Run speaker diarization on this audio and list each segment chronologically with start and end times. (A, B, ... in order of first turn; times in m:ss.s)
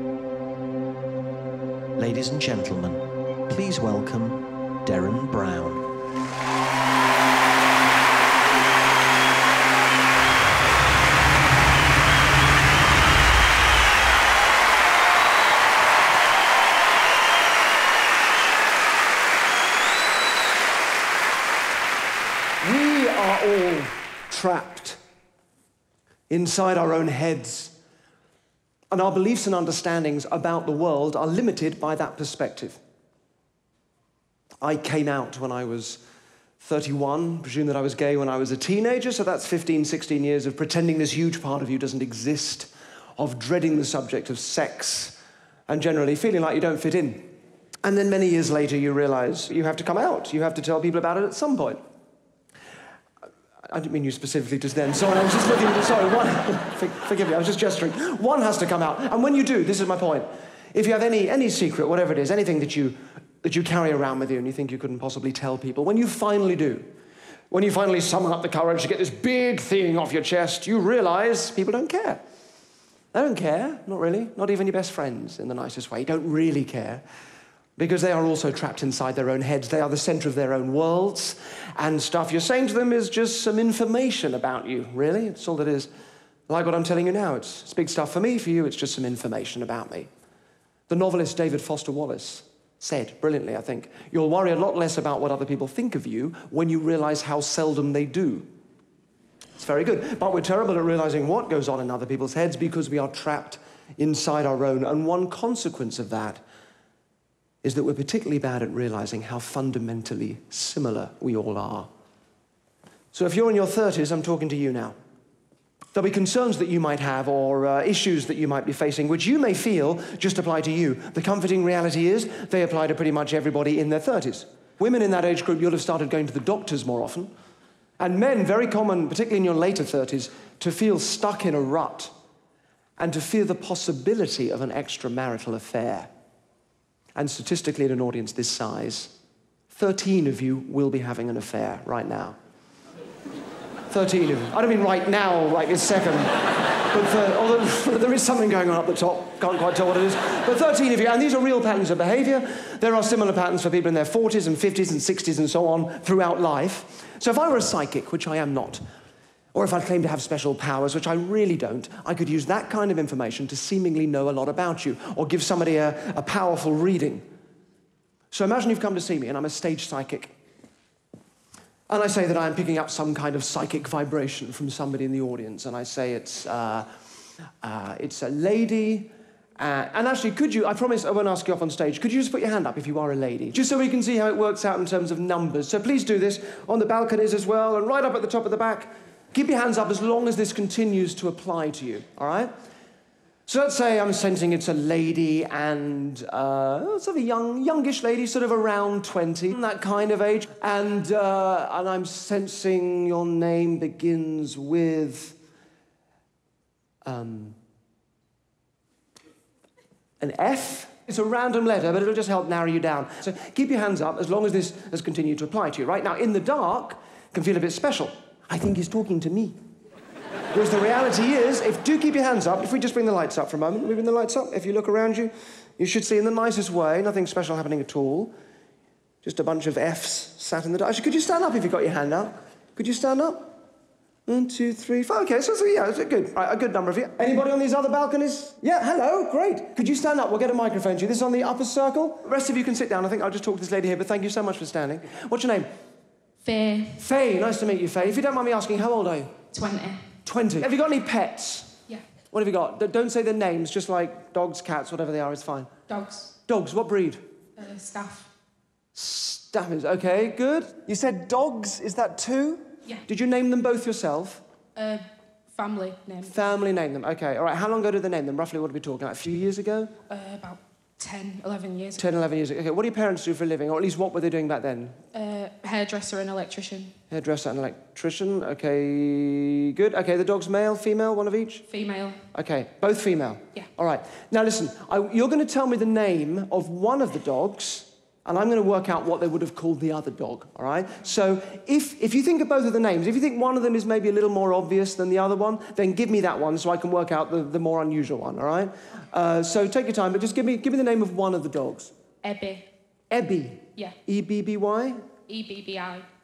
0:02.0-0:05.9 A
0:22.6-0:25.0 B
0:26.3-0:27.8 B
0:28.9-0:32.8 B
0:34.6-0:36.0 B
0:36.6-0:47.3 B
0:47.8-0:51.8 B
0:53.7-1:06.9 B
1:07.5-1:12.2 B
1:13.1-1:17.0 B
1:17.8-1:25.9 B
1:26.5-1:30.1 B
1:30.9-1:38.5 B
1:39.6-1:46.4 B
1:47.6-1:51.9 B
1:53.1-1:54.9 B
1:55.9-2:07.3 B
2:08.0-2:12.1 B
2:13.0-2:16.1 B
2:17.2-2:19.1 B
2:19.7-2:22.4 B
2:23.9-2:26.3 B
2:26.9-2:38.8 B
2:39.5-2:47.2 B
2:48.3-2:50.3 B
2:51.9-2:56.9 B
2:57.6-3:12.5 B
3:13.5-3:25.4 B
3:27.0-3:27.6 B
3:30.2-3:39.6 B
3:40.5-3:48.3 B
3:49.2-3:53.6 B
3:54.3-4:05.7 B
4:06.4-4:07.0 C
4:07.0-4:09.3 B
4:09.5-4:10.1 C
4:10.2-4:11.8 B
4:12.3-4:15.7 B
4:15.9-4:16.3 C
4:16.5-4:17.2 B
4:17.6-4:18.3 C
4:18.9-4:24.4 B
4:24.8-4:26.3 C
4:26.3-4:29.9 B
4:30.1-4:32.0 C
4:32.0-4:35.0 B
4:35.1-4:37.0 C
4:37.1-4:41.6 B
4:41.7-4:42.2 C
4:42.3-5:01.9 B
5:02.2-5:02.7 C
5:03.1-5:05.0 B
5:05.3-5:06.1 C